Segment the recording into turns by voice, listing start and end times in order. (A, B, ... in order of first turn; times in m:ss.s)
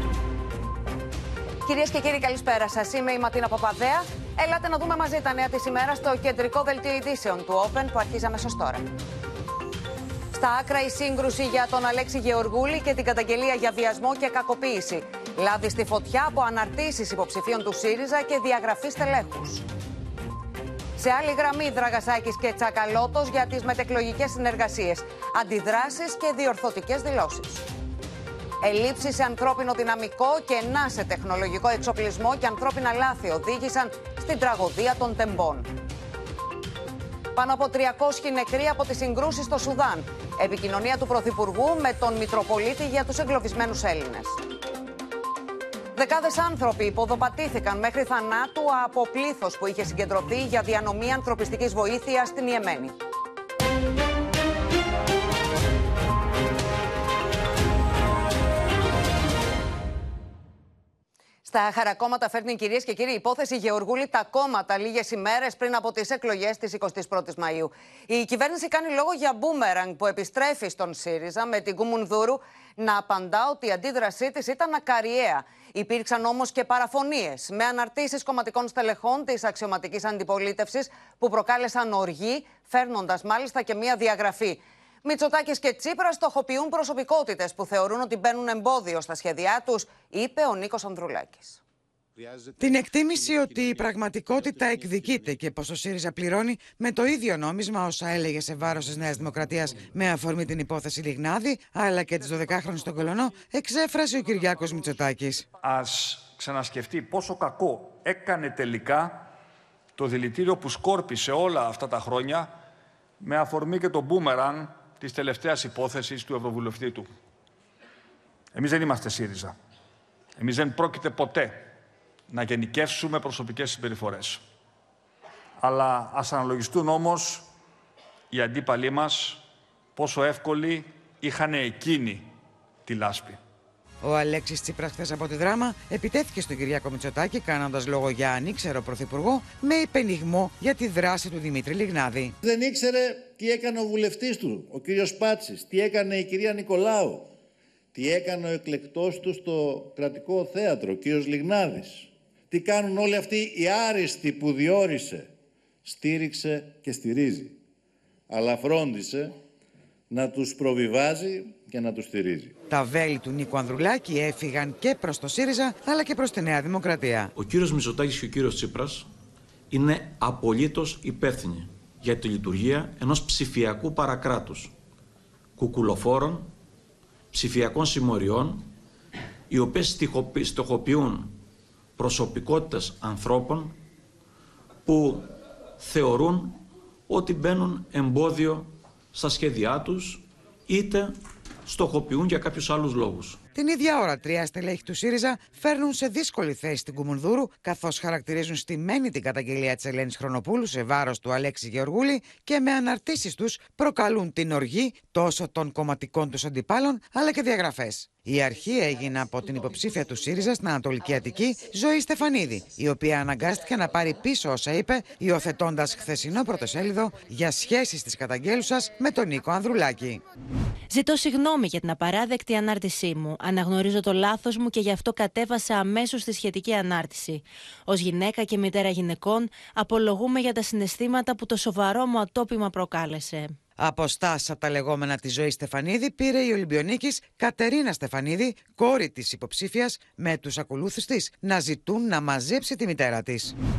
0:01.6-0:08.8 A
0:10.3-0:19.6 A
0:21.0-0:27.7 A
0:28.6-0:35.7 A
0:37.3-0:44.4 A
0:45.9-0:52.9 A
1:01.4-1:31.6 A
1:32.6-1:45.4 B
1:45.6-1:49.3 C
1:50.0-1:52.5 C
1:53.2-1:57.1 C
1:58.5-1:59.5 C
2:00.4-2:01.7 C
2:02.3-2:04.4 C
2:05.6-2:07.5 C
2:08.3-2:09.4 C
2:09.9-2:12.3 C
2:12.8-2:13.4 C
2:14.0-2:22.3 B
2:22.4-2:27.3 D
2:27.9-2:35.3 D
2:35.8-2:37.6 D
2:38.3-2:39.4 D
2:40.1-2:42.5 D
2:42.7-2:47.3 B
2:47.3-2:49.1 E
2:49.7-2:54.7 E
2:55.6-2:56.5 E
2:57.3-2:58.7 E
2:59.5-3:01.4 E
3:02.0-3:03.8 E
3:04.8-3:05.3 E
3:05.8-3:13.4 E
3:13.5-3:40.2 B
3:40.9-3:53.5 F
3:53.8-4:03.5 B